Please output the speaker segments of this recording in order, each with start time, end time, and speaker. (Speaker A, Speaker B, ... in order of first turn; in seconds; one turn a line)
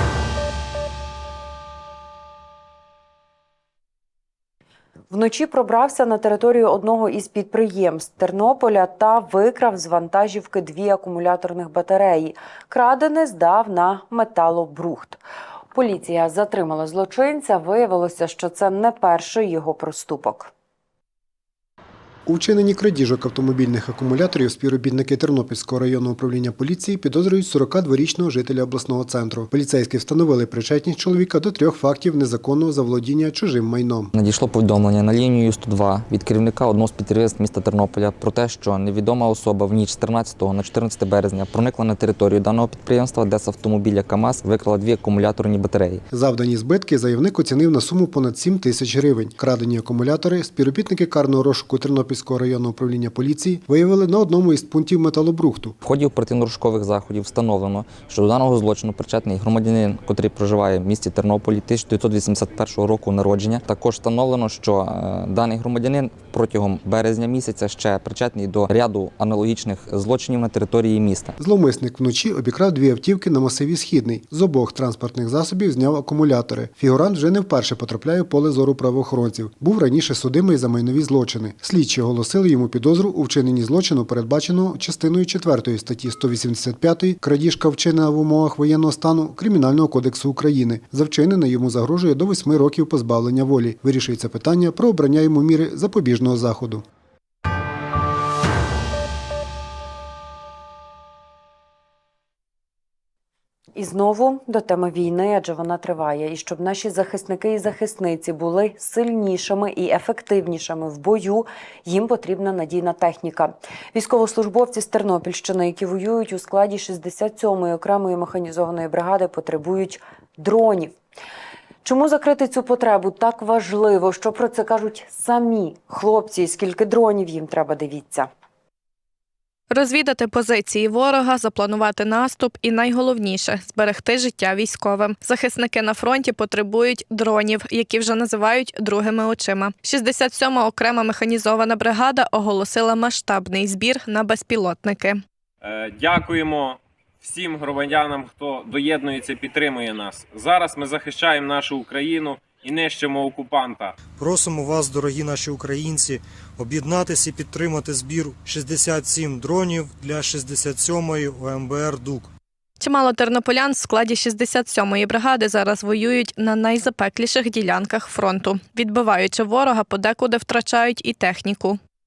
Speaker A: 5.1-15.2
Speaker A: 15.7-20.5
Speaker B: 22.2-34.1
Speaker C: 34.1-46.0
Speaker B: 46.1-55.8
Speaker C: 55.8-71.3
Speaker B: 71.4-96.8
Speaker A: 103.7-120.9
Speaker A: 121.8-128.3
Speaker D: 129.7-145.2
Speaker E: 145.7-146.7
Speaker E: 147.3-153.9
Speaker F: 154.2-162.3
Speaker D: 162.8-171.8